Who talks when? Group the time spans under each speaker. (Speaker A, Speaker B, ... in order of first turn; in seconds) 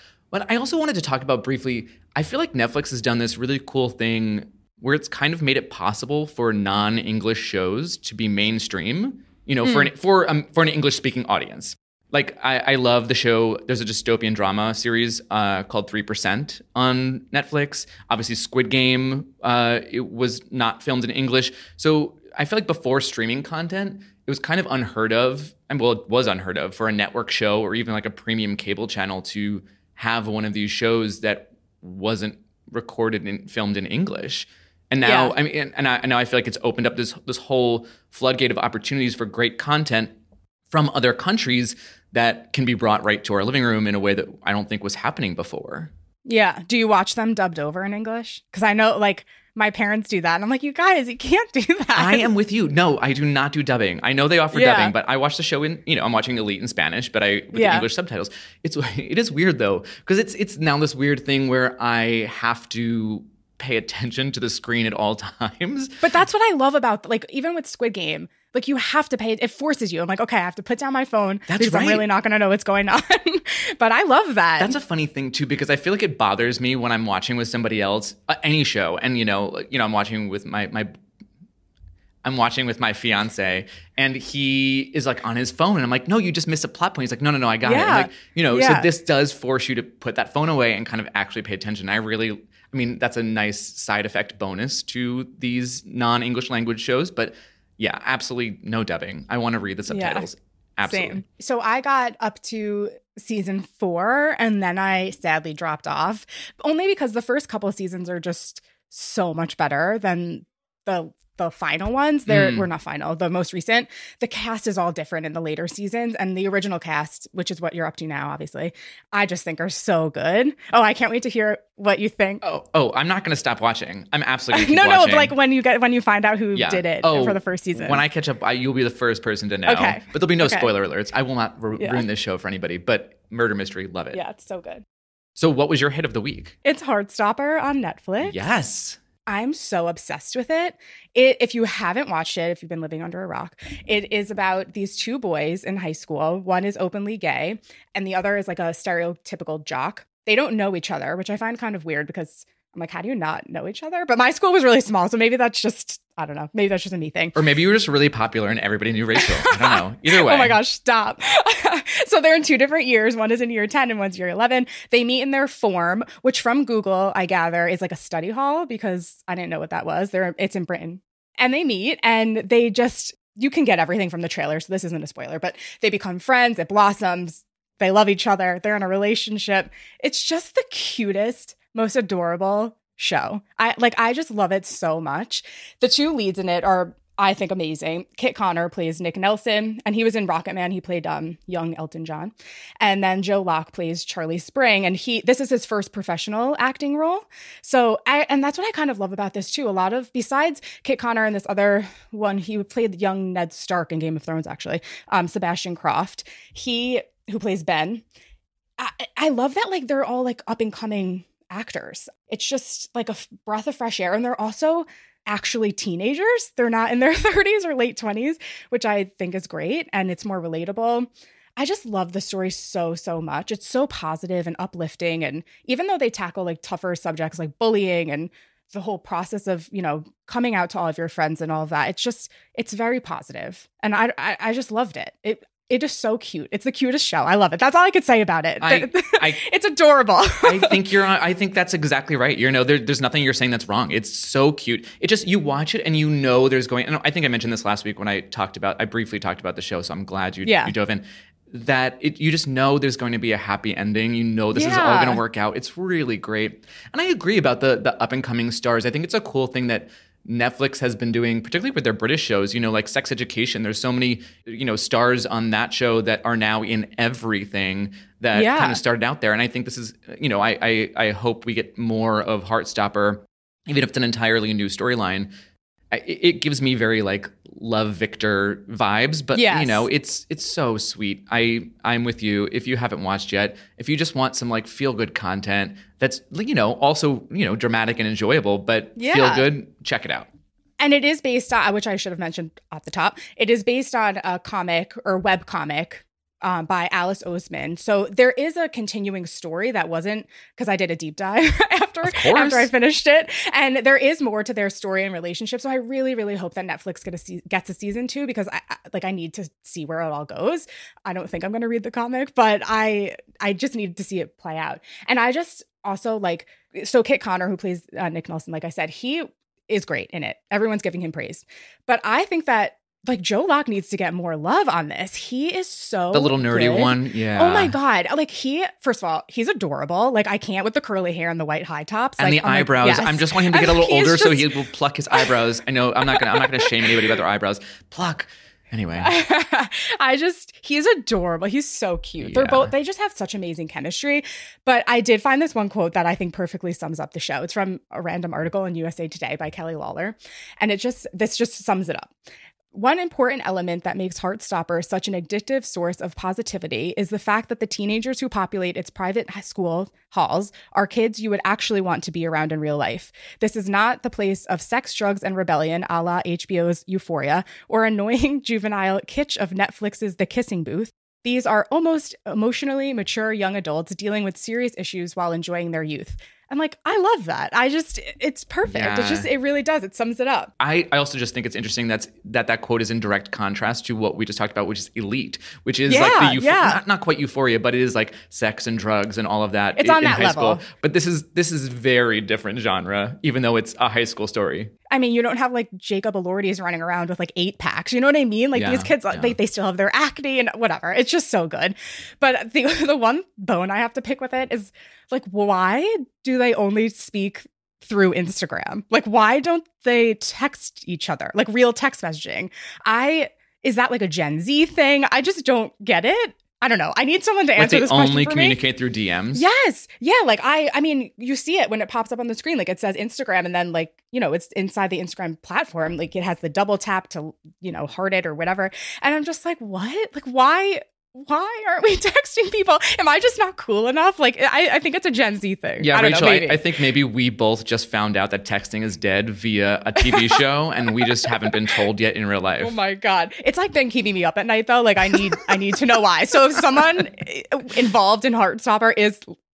Speaker A: 0.3-40.1, 40.7-45.9, 51.9-66.0, 71.5-72.0, 74.6-80.9, 82.2-101.2, 112.2-112.7, 122.4-125.4, 126.5-134.2, 135.4-136.6, 138.2-139.0, 157.3-160.6, 238.6-239.4, 240.4-275.3, 275.9-290.3, 302.0-302.7, 326.1-327.8, 332.2-339.1, 342.2-342.7, 378.7-379.3, 380.6-394.7, 398.5-399.4, 417.6-419.4, 435.8-442.8
Speaker B: 35.0-35.3, 46.2-52.3, 54.5-54.9, 57.5-57.9, 66.0-74.7, 87.6-88.9, 99.9-100.3, 100.8-122.4, 124.5-128.0, 129.7-130.7, 131.8-132.1, 134.1-134.8, 136.6-138.4, 139.3-157.3, 159.2-208.0, 208.8-240.8, 250.4-250.7, 254.5-255.2, 268.3-268.8, 279.3-279.8, 288.9-289.4, 290.8-334.5, 336.1-336.9, 339.0-352.1, 352.7-380.5, 385.9-386.8, 389.8-390.6, 394.9-418.6, 419.3-436.6, 440.0-440.4, 441.0-441.5, 442.6-449.3